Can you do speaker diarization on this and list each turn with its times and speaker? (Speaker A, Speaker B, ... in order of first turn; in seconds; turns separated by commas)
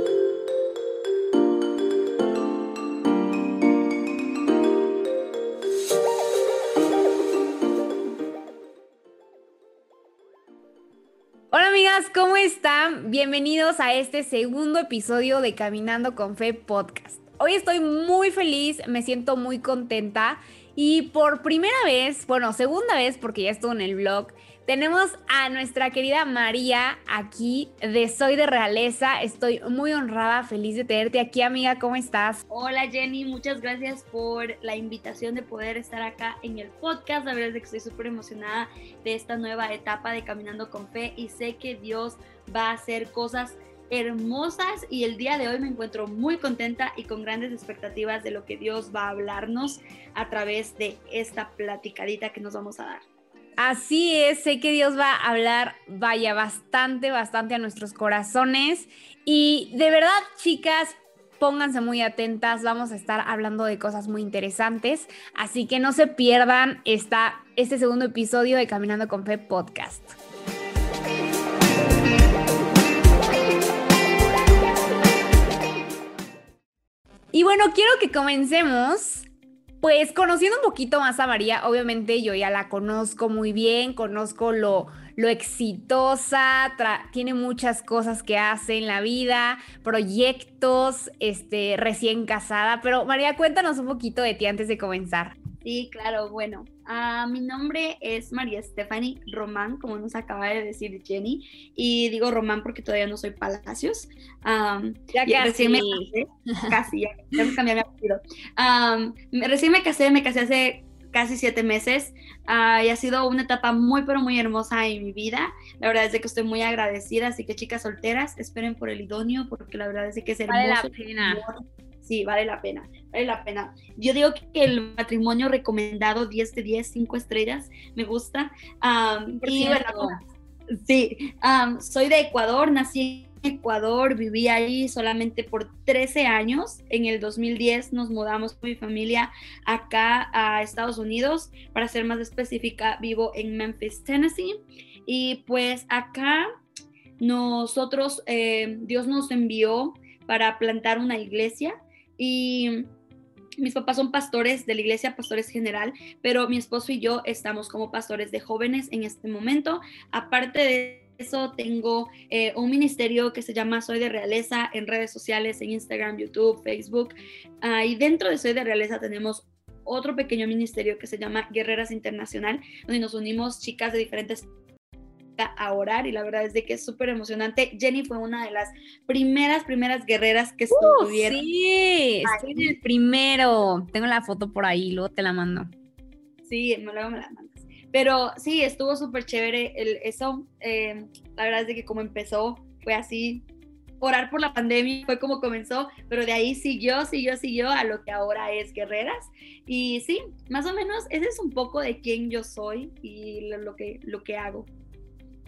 Speaker A: 11.5-32.4, Speaker B: 32.5-53.0, Speaker A: 53.6-70.2, Speaker A: 77.3-79.3, Speaker A: 79.8-95.3, Speaker B: 95.6-130.2, Speaker A: 105.1-106.1, Speaker A: 120.5-121.4, Speaker A: 129.4-130.2, Speaker B: 130.8-146.5, Speaker B: 147.2-152.9, Speaker B: 153.6-174.5, Speaker B: 175.4-181.4, Speaker A: 180.7-185.7, Speaker B: 182.2-182.7, Speaker B: 186.4-193.4, Speaker B: 194.0-204.7